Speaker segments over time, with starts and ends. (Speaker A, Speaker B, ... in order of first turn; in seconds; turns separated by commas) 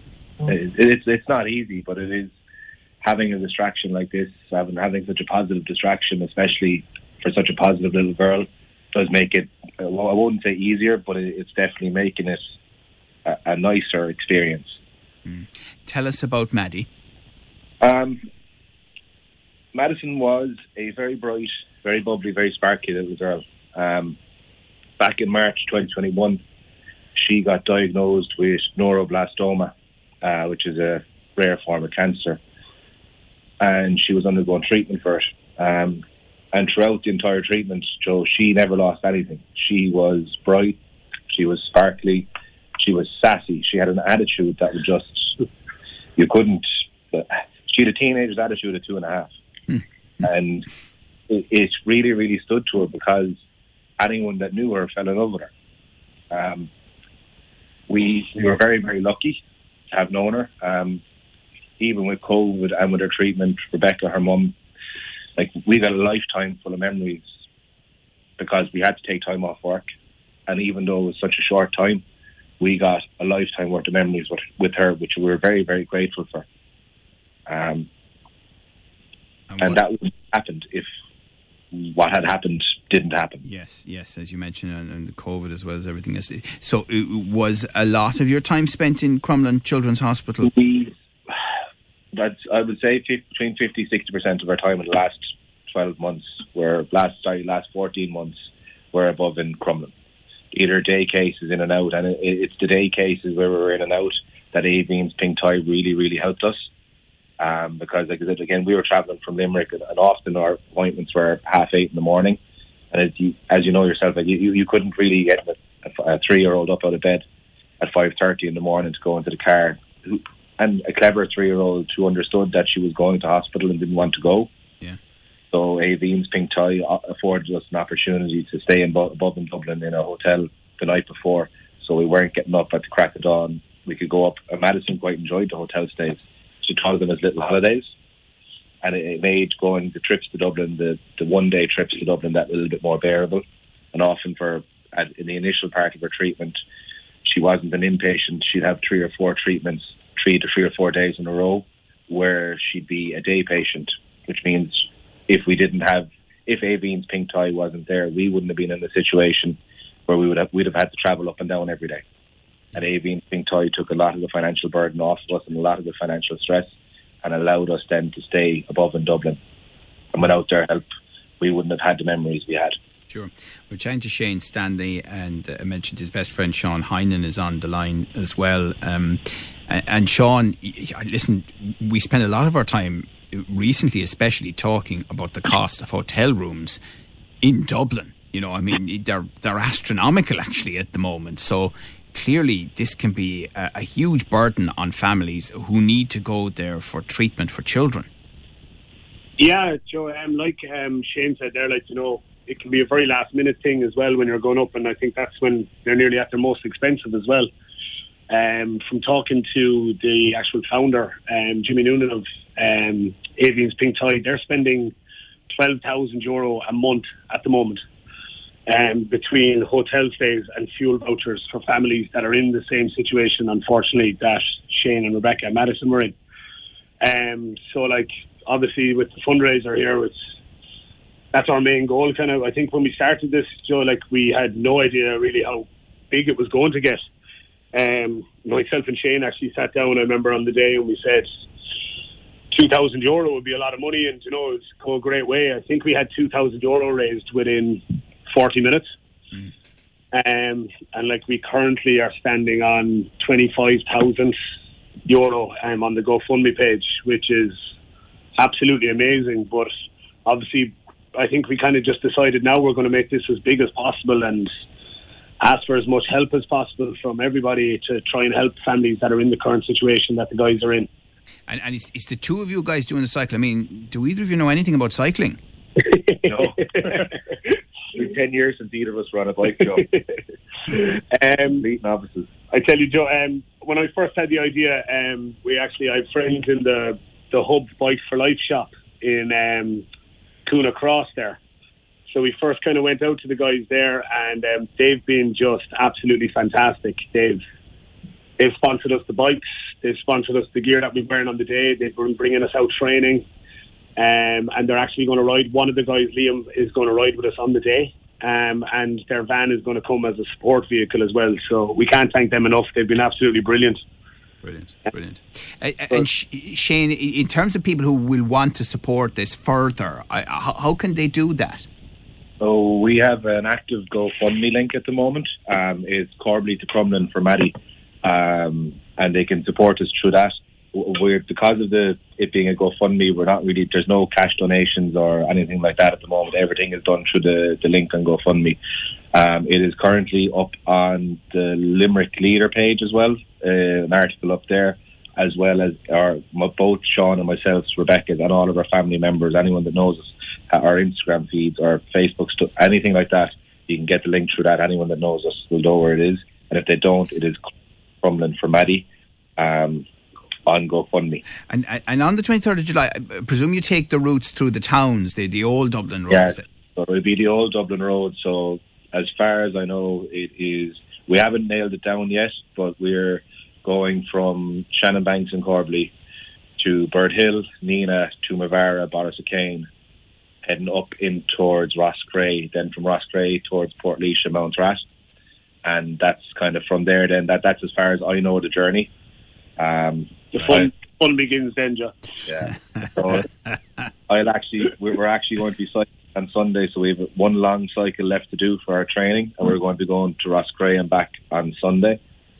Speaker A: 0.4-2.3, Speaker A: 3.0-12.4, Speaker A: 13.3-14.8, Speaker B: 15.3-16.9, Speaker A: 17.8-18.2, Speaker A: 19.7-24.2, Speaker A: 25.0-26.4, Speaker A: 27.1-29.7, Speaker A: 30.2-32.4, Speaker A: 33.6-40.8, Speaker A: 41.3-45.4, Speaker A: 46.2-49.3, Speaker A: 50.2-50.7, Speaker A: 51.3-53.4, Speaker A: 54.0-55.5, Speaker A: 56.3-56.7, Speaker A: 57.9-59.4, Speaker A: 59.9-61.0, Speaker A: 61.8-64.5, Speaker A: 65.4-67.2, Speaker A: 68.4-69.8, Speaker A: 70.5-72.0, Speaker A: 72.6-76.5, Speaker A: 77.5-77.9, Speaker B: 79.5-79.8, Speaker A: 79.6-80.9, Speaker A: 81.7-83.5, Speaker B: 83.5-90.5, Speaker A: 90.4-91.4, Speaker A: 92.2-98.4, Speaker A: 98.9-99.9, Speaker A: 100.5-106.7, Speaker A: 107.4-112.4, Speaker A: 112.9-117.2, Speaker A: 117.8-124.5, Speaker A: 125.5-137.9, Speaker A: 138.8-146.6, Speaker A: 147.2-162.0, Speaker A: 162.8-166.7, Speaker A: 167.2-169.4, Speaker A: 170.1-170.8, Speaker A: 171.4-172.8, Speaker B: 173.1-186.8, Speaker B: 187.4-198.1, Speaker C: 199.4-207.5, Speaker C: 208.3-214.9, Speaker C: 215.5-217.8, Speaker C: 218.7-226.2, Speaker C: 227.0-230.2, Speaker C: 231.3-237.0, Speaker C: 237.7-241.3, Speaker C: 242.5-248.9, Speaker C: 250.1-254.3, Speaker C: 255.1-257.6, Speaker C: 258.4-259.7, Speaker C: 260.2-264.5, Speaker C: 265.4-270.9, Speaker B: 271.5-275.4, Speaker C: 275.8-277.0, Speaker A: 276.2-277.2, Speaker A: 277.9-280.0, Speaker C: 280.7-281.6, Speaker A: 281.1-282.3, Speaker C: 282.5-289.9, Speaker C: 290.5-291.4, Speaker C: 292.1-297.4, Speaker C: 298.4-303.3, Speaker C: 304.0-313.8, Speaker B: 314.4-321.7, Speaker A: 322.4-338.6, Speaker A: 339.1-357.4, Speaker A: 358.0-358.9, Speaker A: 359.4-359.9, Speaker A: 360.5-361.2, Speaker B: 361.5-366.5, Speaker A: 366.1-375.9, Speaker A: 376.6-379.7, Speaker A: 380.5-384.8, Speaker A: 385.6-388.9, Speaker A: 389.6-390.8, Speaker C: 390.3-391.9, Speaker A: 392.2-393.3, Speaker A: 394.1-402.0